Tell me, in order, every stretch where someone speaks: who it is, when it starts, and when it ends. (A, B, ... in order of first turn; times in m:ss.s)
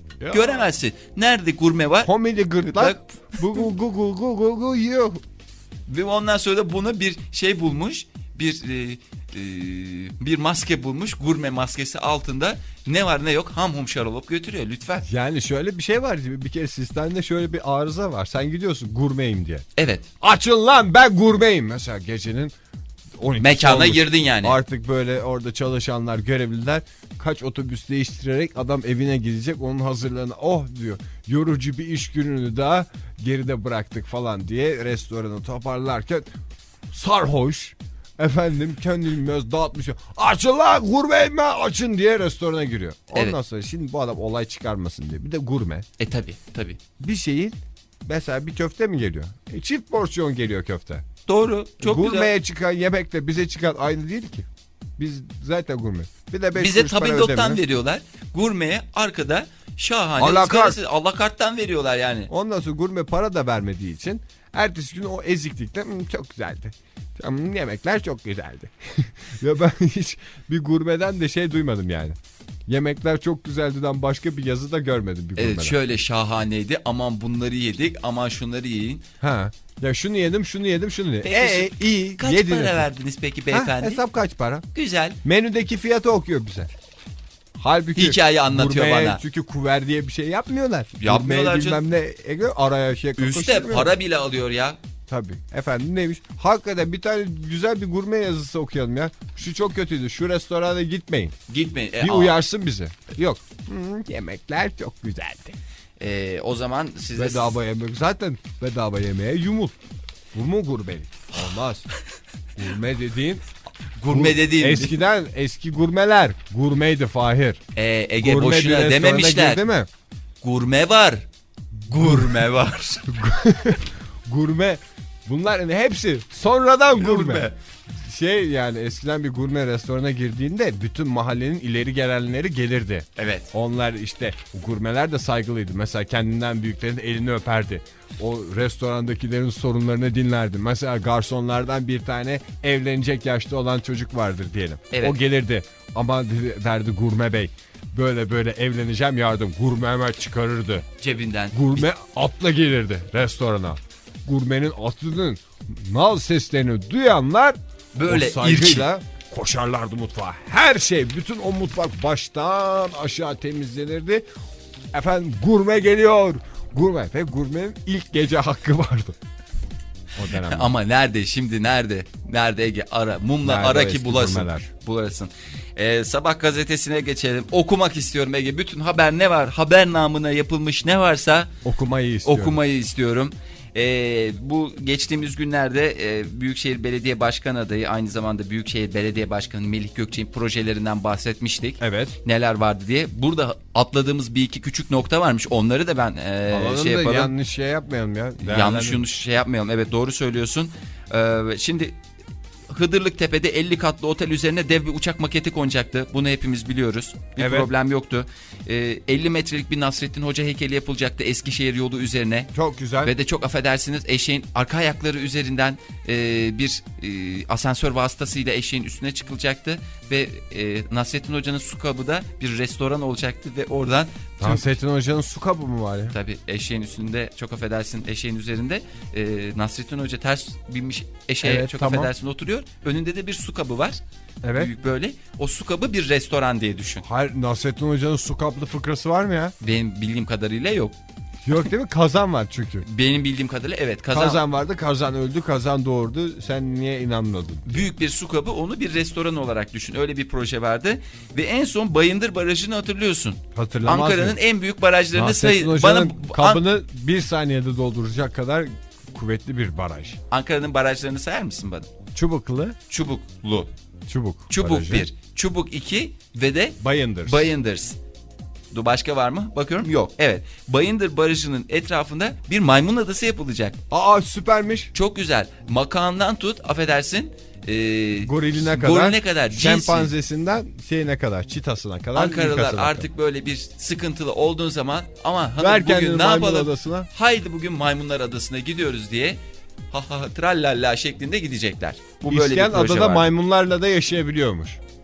0:00.2-0:00.7 A
0:00.3-0:02.1 B
0:02.0-0:05.2 A
0:02.6-0:03.0 B
0:05.9-0:15.1 B
0:15.0-0:19.7 A
0:19.8-0:20.1 B
0:20.2-0:22.5 A
0:23.2-0:36.3 A
0:23.4-0:24.6 B
0:36.9-0:45.9 A
0:46.0-0:46.8 B
0:47.0-0:51.0 A
0:51.3-0:52.3 B
0:51.8-0:57.6 A
0:56.6-1:02.3 B
1:00.2-1:00.8 A
1:02.3-1:15.8 A
1:15.4-1:19.0 B
1:19.2-1:22.9 A
1:21.2-1:24.0 B
1:23.5-1:24.6 A
1:24.7-1:25.2 B
1:25.2-1:26.7 A
1:27.6-1:33.9 A
1:28.0-1:29.2 B
1:31.0-1:31.8 B
1:33.2-1:34.8 B
1:35.1-1:41.4 A
1:41.5-1:42.4 B
1:42.0-1:45.6 A
1:46.0-1:47.5 B
1:47.2-1:49.8 A
1:50.3-1:51.9 A
1:52.6-1:53.4 A
1:54.0-1:55.0 B
1:54.1-1:57.6 A
1:57.8-1:59.6 B
1:58.2-1:59.9 A
2:00.4-2:01.2 B
2:01.9-2:03.1 B
2:01.9-2:02.3 A
2:03.1-2:30.9 A
2:07.0-2:07.6 B
2:13.2-2:13.5 B
2:24.9-2:25.2 B
2:31.0-2:31.9 B
2:31.5-2:44.3 A
2:38.0-2:38.9 B
2:44.9-2:49.2 A
2:50.2-2:50.7 A
2:50.5-3:01.5 B
2:53.4-2:54.7 A
3:01.6-3:02.6 A
3:02.2-3:17.3 B
3:11.8-3:12.2 A
3:16.5-3:19.0 A
3:18.4-3:22.0 B
3:22.7-3:44.7 B
3:27.4-3:27.7 A
3:32.5-3:33.1 A
3:44.4-3:46.2 A
3:46.1-3:54.0 B
3:51.4-3:52.1 A
3:54.4-3:54.7 A
3:54.5-3:57.0 B
3:57.0-3:59.6 A
3:59.6-4:01.0 B
4:01.4-4:02.9 A
4:02.8-4:04.4 B
4:04.1-4:07.8 A
4:07.7-4:16.6 B
4:13.5-4:14.4 A
4:15.1-4:20.2 A
4:20.3-4:21.9 B
4:22.1-4:22.8 A
4:22.9-4:23.7 B
4:24.1-4:25.1 A
4:24.5-4:28.0 B
4:26.8-4:27.5 A
4:28.7-4:33.8 B
4:33.9-4:34.9 A
4:34.9-4:40.1 B
4:38.2-4:43.1 A
4:42.1-4:53.3 B
4:45.6-4:47.1 A
4:52.2-4:54.8 A